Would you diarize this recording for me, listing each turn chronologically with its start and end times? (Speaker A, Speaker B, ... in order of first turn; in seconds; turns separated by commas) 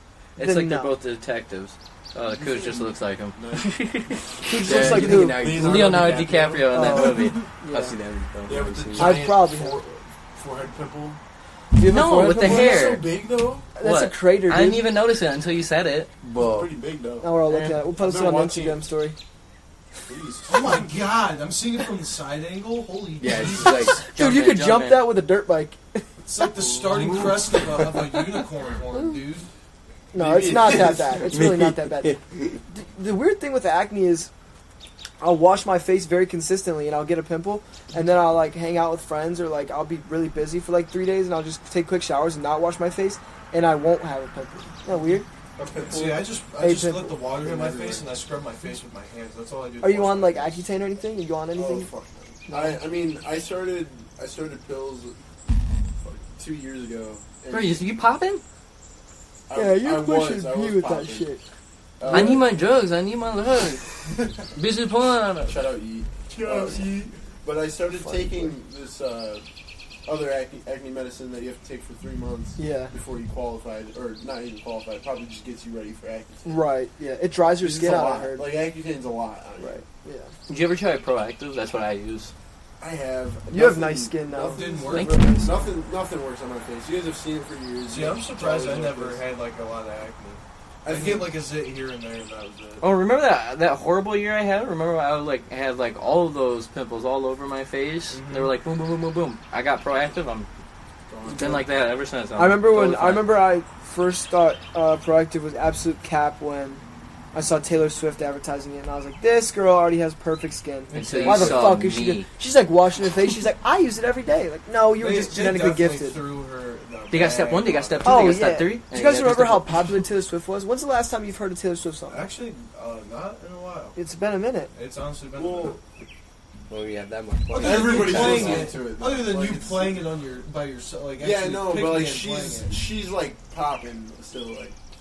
Speaker A: 0.4-4.2, Speaker B: 0.4-0.9, Speaker C: 2.3-4.0, Speaker B: 4.4-5.5, Speaker D: 4.6-6.2, Speaker C: 4.8-7.1, Speaker A: 5.5-7.5, Speaker B: 6.7-8.0, Speaker D: 7.6-9.3, Speaker C: 8.5-11.2, Speaker B: 9.0-9.8, Speaker B: 11.8-12.8, Speaker A: 11.8-13.2, Speaker C: 12.3-13.7, Speaker B: 13.8-14.9, Speaker A: 13.8-16.1, Speaker D: 16.2-16.8, Speaker C: 16.4-17.3, Speaker B: 17.2-19.2, Speaker A: 17.5-17.8, Speaker C: 17.9-18.8, Speaker C: 20.1-20.9, Speaker E: 20.5-24.0, Speaker D: 23.2-24.0, Speaker A: 24.1-25.2, Speaker B: 24.1-26.5, Speaker E: 26.3-29.5, Speaker C: 26.8-27.4, Speaker B: 30.1-34.3, Speaker C: 30.1-31.2, Speaker D: 31.2-32.6, Speaker B: 35.2-45.3, Speaker C: 45.6-46.4, Speaker E: 45.9-50.6, Speaker B: 46.6-47.2, Speaker C: 47.4-48.1, Speaker B: 49.8-51.9, Speaker C: 51.5-55.2, Speaker B: 52.5-52.8, Speaker C: 56.0-57.9, Speaker A: 57.5-58.4, Speaker C: 59.5-61.3, Speaker B: 59.5-61.4, Speaker C: 62.0-62.5, Speaker B: 62.1-62.4, Speaker A: 62.1-64.0, Speaker A: 64.5-65.7, Speaker C: 65.5-69.5, Speaker B: 66.4-66.8, Speaker B: 67.9-68.5, Speaker C: 70.0-76.6, Speaker B: 72.6-72.9, Speaker B: 76.5-78.6, Speaker C: 77.6-79.8, Speaker B: 79.6-80.3, Speaker A: 80.5-82.3, Speaker C: 82.8-89.2, Speaker B: 83.5-85.2, Speaker E: 84.5-85.3, Speaker A: 84.9-85.5, Speaker E: 87.9-92.9, Speaker C: 90.8-91.4, Speaker A: 92.8-100.5, Speaker E: 98.1-98.5, Speaker C: 101.1-101.7, Speaker A: 101.2-103.4, Speaker B: 102.4-106.8, Speaker B: 107.3-116.2, Speaker E: 110.9-111.8, Speaker A: 110.9-112.3, Speaker E: 115.0-118.4, Speaker A: 117.1-119.7, Speaker B: 118.0-122.2, Speaker D: 118.9-119.4, Speaker E: 122.1-124.0, Speaker B: 124.0-124.7, Speaker E: 124.7-125.8, Speaker C: 125.3-125.8, Speaker D: 126.7-128.8, Speaker C: 127.5-130.1, Speaker E: 127.5-132.8, Speaker C: 131.2-134.8